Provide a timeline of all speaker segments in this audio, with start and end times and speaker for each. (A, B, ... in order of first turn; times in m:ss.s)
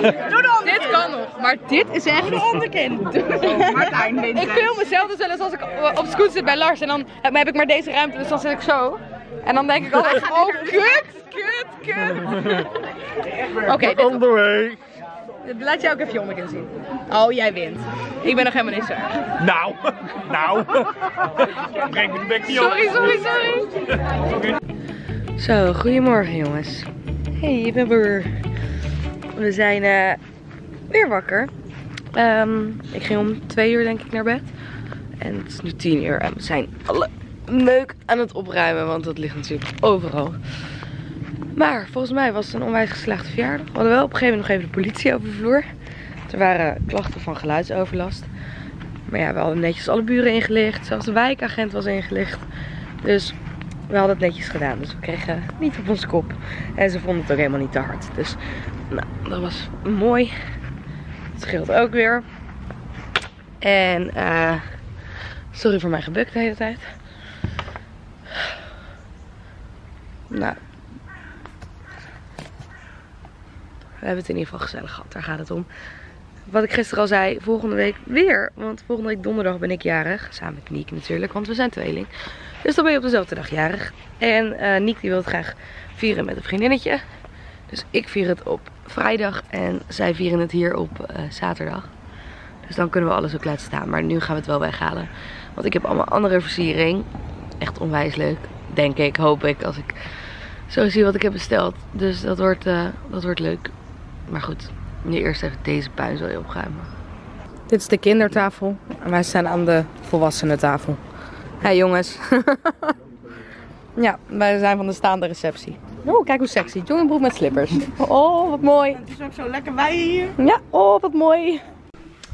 0:00.2-0:01.1 A
0:00.6-0:12.7 B
0:03.5-0:04.8 A
0:13.6-0:14.3 B
0:13.7-0:14.8 C
0:15.4-0:19.2 B
0:19.4-0:20.9 C
0:21.8-0:23.3 C
0:22.4-0:23.7 B
0:25.4-0:28.3 B
0:29.3-0:30.2 B
0:30.9-0:31.5 B
0:32.1-0:34.5 B
0:35.2-0:40.6 B
0:41.6-0:45.7 B
0:46.3-0:48.3 B
0:49.1-0:52.5 B
0:53.0-0:53.4 B
0:53.9-0:58.4 B
0:58.9-1:00.4 B
1:01.4-1:02.2 B
1:03.6-1:04.7 B
1:05.5-1:06.9 B
1:10.3-1:10.6 B
1:14.0-1:15.7 B
1:16.5-1:22.1 B
1:22.6-1:27.0 B
1:27.7-1:31.9 B
1:32.6-1:37.1 B
1:37.6-1:40.0 B
1:40.7-1:43.7 B
1:44.3-1:46.9 B
1:47.7-1:51.0 B
1:51.6-1:53.0 B
1:54.0-1:59.0 B
1:58.9-2:00.4 A
2:00.4-2:01.6 B